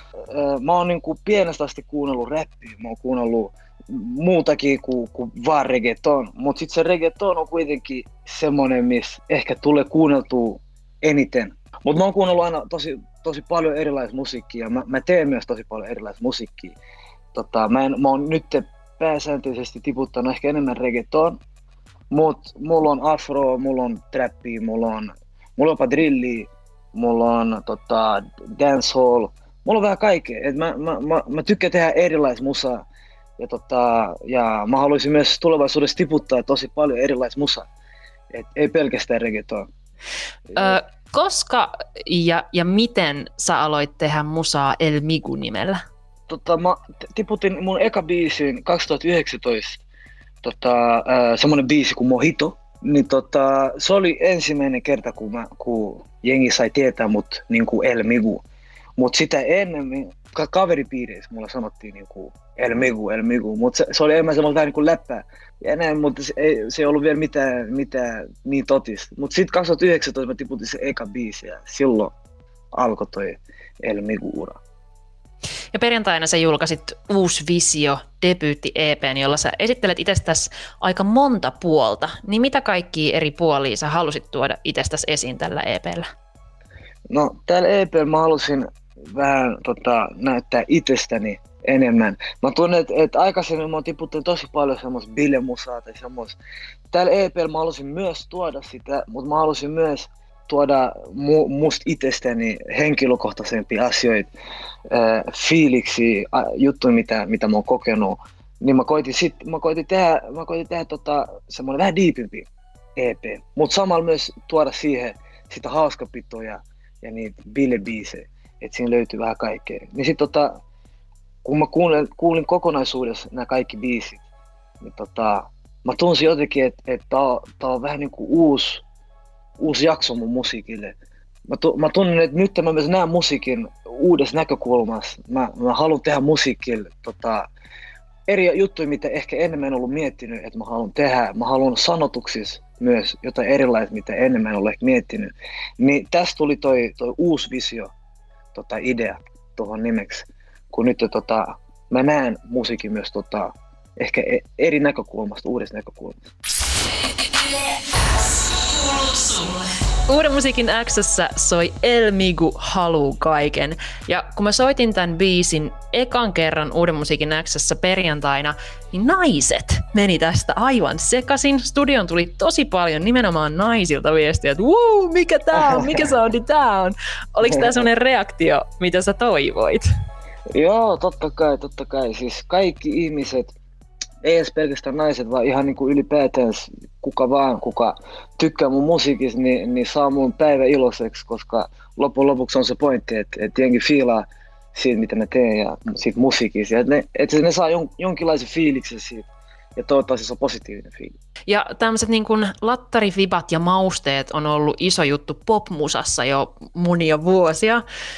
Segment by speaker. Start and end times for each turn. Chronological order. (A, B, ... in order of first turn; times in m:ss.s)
0:00.3-0:16.8 A
0:17.3-0:21.4 A
0:22.1-0:32.9 A
0:33.4-0:37.7 A
0:38.3-0:39.7 A
0:40.6-0:45.8 B
0:46.3-0:49.8 A
0:50.4-0:58.4 A
0:59.0-1:12.1 A
1:12.7-1:14.6 A
1:15.7-1:26.0 B
1:27.1-1:36.4 A
1:36.9-1:44.3 A
1:44.9-2:00.6 A
2:01.4-2:04.2 A
2:04.8-2:08.8 A
2:09.6-2:11.0 A
2:11.5-2:17.5 A
2:18.3-2:27.9 A
2:28.5-2:36.2 A
2:38.5-2:59.8 B
2:55.6-2:56.0 A
2:57.5-2:57.7 A
3:00.5-3:03.5 A
3:04.2-3:21.2 A
3:21.5-3:27.8 B